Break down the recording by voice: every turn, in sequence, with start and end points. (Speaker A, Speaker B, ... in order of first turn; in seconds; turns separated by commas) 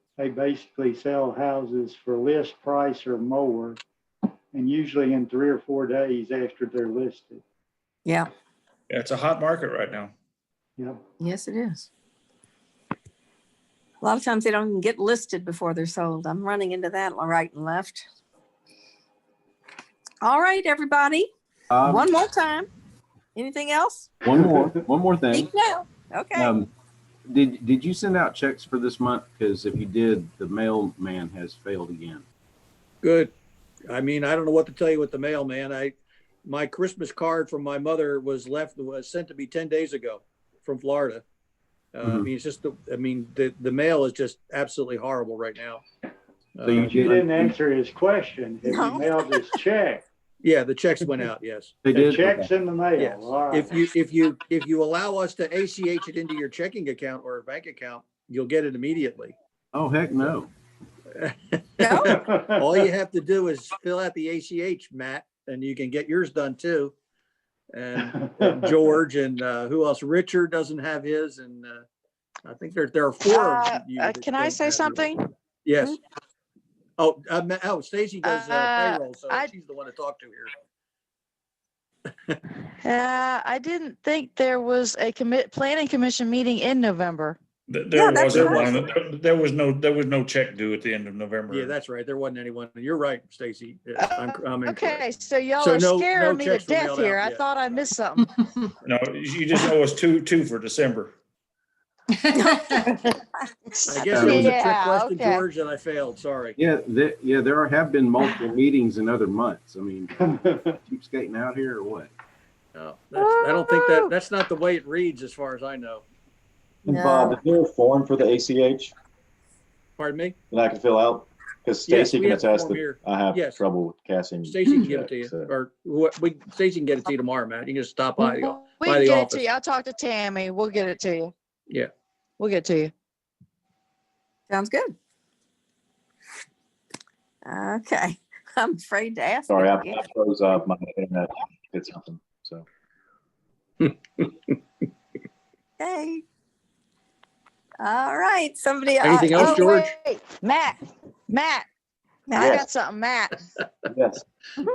Speaker A: 0.2-3.8, Speaker A: 4.5-7.4, Speaker B: 8.9-10.1, Speaker C: 11.2-11.9, Speaker C: 14.0-18.1, Speaker C: 20.2-21.3, Speaker D: 21.7-22.1, Speaker C: 21.8-22.7, Speaker C: 23.4-24.1, Speaker D: 24.2-25.5, Speaker C: 25.3-26.5, Speaker D: 26.4-26.7, Speaker D: 27.3-32.2, Speaker E: 33.0-33.3, Speaker E: 33.9-41.2, Speaker E: 41.9-45.8, Speaker E: 46.6-46.9, Speaker D: 46.6-47.5, Speaker A: 46.8-50.0, Speaker C: 48.7-49.3, Speaker E: 50.4-51.8, Speaker D: 51.9-52.5, Speaker A: 51.9-53.8, Speaker E: 53.0-59.4, Speaker D: 59.7-60.5, Speaker E: 61.1-66.9, Speaker C: 61.8-62.2, Speaker A: 62.1-62.7, Speaker E: 67.7-71.9, Speaker A: 68.1-68.7, Speaker E: 72.4-75.1, Speaker F: 73.3-75.3, Speaker E: 75.6-76.0, Speaker E: 77.0-80.5, Speaker F: 78.2-79.5, Speaker E: 82.1-82.4, Speaker F: 82.8-87.4, Speaker B: 87.7-91.8, Speaker C: 87.9-88.7, Speaker E: 88.3-88.9, Speaker E: 91.5-97.4, Speaker F: 94.0-98.3, Speaker B: 98.8-101.2, Speaker C: 102.3-103.2, Speaker E: 103.9-106.6, Speaker D: 104.1-104.6, Speaker F: 104.2-105.4, Speaker D: 106.6-110.3, Speaker A: 110.2-110.8, Speaker D: 110.8-112.1, Speaker E: 112.7-116.1, Speaker F: 113.2-114.1, Speaker G: 116.9-118.9, Speaker C: 116.9-117.4, Speaker E: 120.0-120.4, Speaker G: 120.5-125.5, Speaker E: 121.9-123.7, Speaker E: 124.5-129.4, Speaker F: 128.2-131.3, Speaker F: 132.4-132.9, Speaker C: 134.5-134.9, Speaker C: 137.4-140.1, Speaker G: 139.5-142.7, Speaker E: 143.8-144.6, Speaker C: 145.8-146.2, Speaker C: 147.8-149.7, Speaker E: 149.0-149.9, Speaker F: 149.3-151.7, Speaker C: 152.3-152.7, Speaker G: 152.3-152.7, Speaker F: 152.6-153.4, Speaker G: 153.9-154.2